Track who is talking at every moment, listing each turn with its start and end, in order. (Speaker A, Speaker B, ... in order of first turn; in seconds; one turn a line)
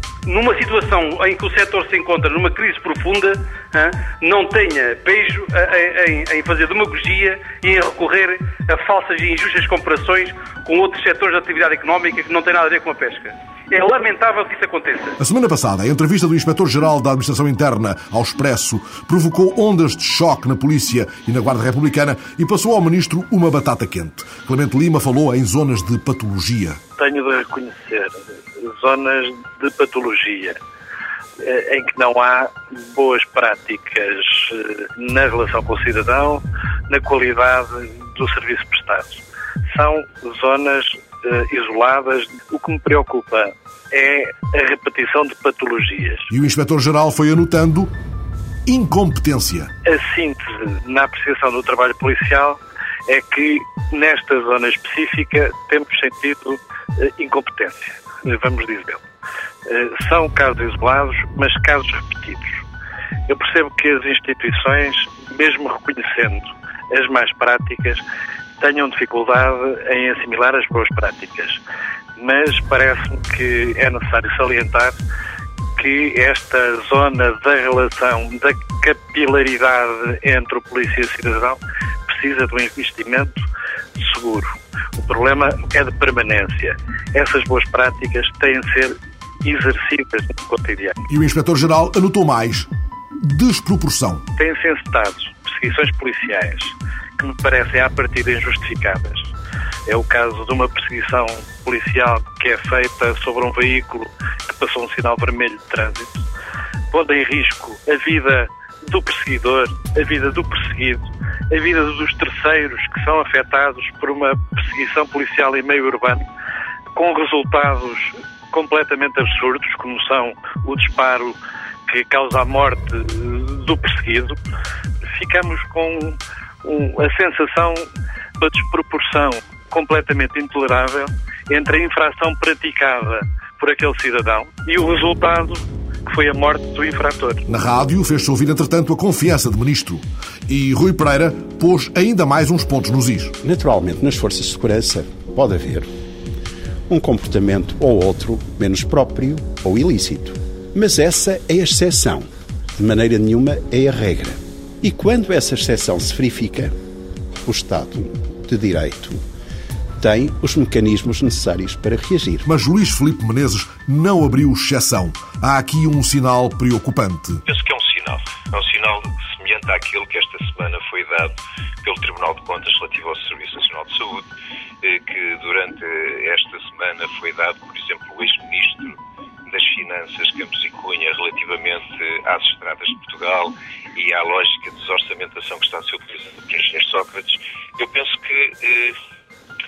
Speaker A: 0.2-15.2
Speaker B: 15.2-26.8
Speaker C: 27.0-30.6
Speaker C: 31.4-39.2
Speaker C: 39.7-46.3
Speaker B: 46.3-47.9
Speaker B: 48.6-49.7
Speaker C: 49.8-59.0
Speaker C: 59.7-62.6
Speaker C: 63.3-68.0
Speaker C: 68.6-71.6
Speaker C: 72.2-75.0
Speaker C: 75.8-83.4
Speaker C: 84.0-91.0
Speaker B: 91.1-92.7
Speaker B: 93.2-94.2
Speaker C: 94.3-99.3
Speaker C: 99.9-106.2
Speaker C: 106.9-116.2
Speaker C: 116.9-124.4
Speaker C: 125.1-127.9
Speaker C: 128.4-137.4
Speaker B: 137.5-143.3
Speaker D: 143.4-145.9
Speaker D: 146.9-156.7
Speaker D: 157.4-159.2
Speaker D: 160.0-162.4
Speaker B: 162.4-167.4
Speaker E: 167.4-171.3
Speaker E: 171.8-174.2
Speaker E: 174.8-178.9
Speaker E: 179.5-188.9